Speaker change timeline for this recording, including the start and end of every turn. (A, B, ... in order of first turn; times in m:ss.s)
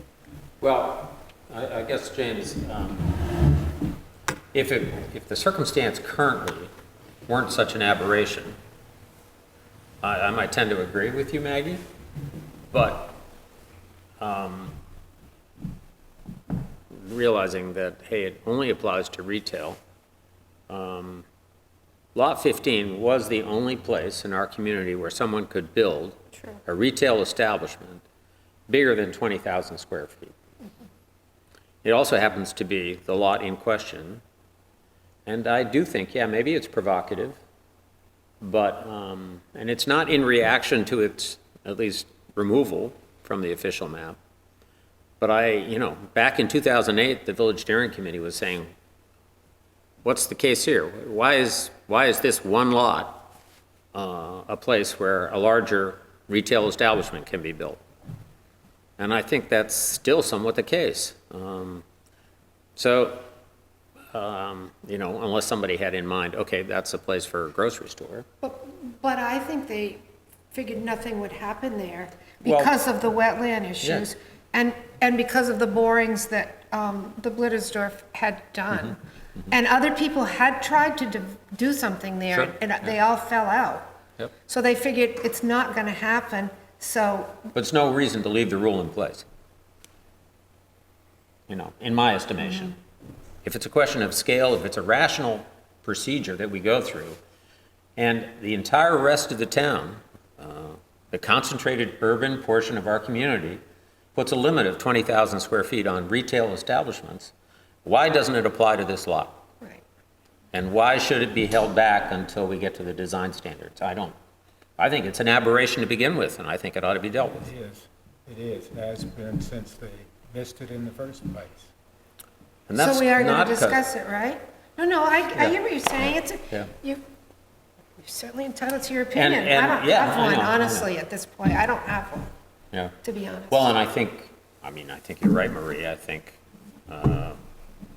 0:00.6-0:03.1 A
0:04.5-0:06.7 A
0:07.3-0:08.6 A
0:10.0-0:11.8 A
0:12.7-0:13.2 A
0:14.2-0:14.8 A
0:16.9-0:19.8 A
0:20.7-0:21.2 A
0:22.2-0:28.0 A
0:28.7-0:30.3 A
0:31.8-0:34.2 A
0:35.3-0:37.4 A
0:38.4-0:44.2 A
0:45.2-0:48.7 A
0:50.0-0:53.3 A
0:53.9-0:57.8 A
0:59.0-1:01.8 A
1:02.8-1:03.3 A
1:04.1-1:08.3 A
1:08.4-1:10.0 B
1:10.5-1:23.9 B
1:12.4-1:12.7 A
1:13.8-1:14.1 A
1:22.3-1:23.0 A
1:24.5-1:27.4 B
1:27.5-1:29.2 A
1:31.5-1:32.8 A
1:33.4-1:37.2 A
1:38.0-1:43.6 A
1:44.2-1:47.3 A
1:47.8-1:49.4 A
1:50.5-1:54.2 A
1:54.8-1:57.5 A
1:57.4-2:01.7 C
2:02.7-2:03.8 A
2:02.8-2:07.0 B
2:05.4-2:06.7 A
2:08.0-2:12.3 B
2:09.2-2:10.9 A
2:13.0-2:13.8 B
2:13.5-2:17.4 A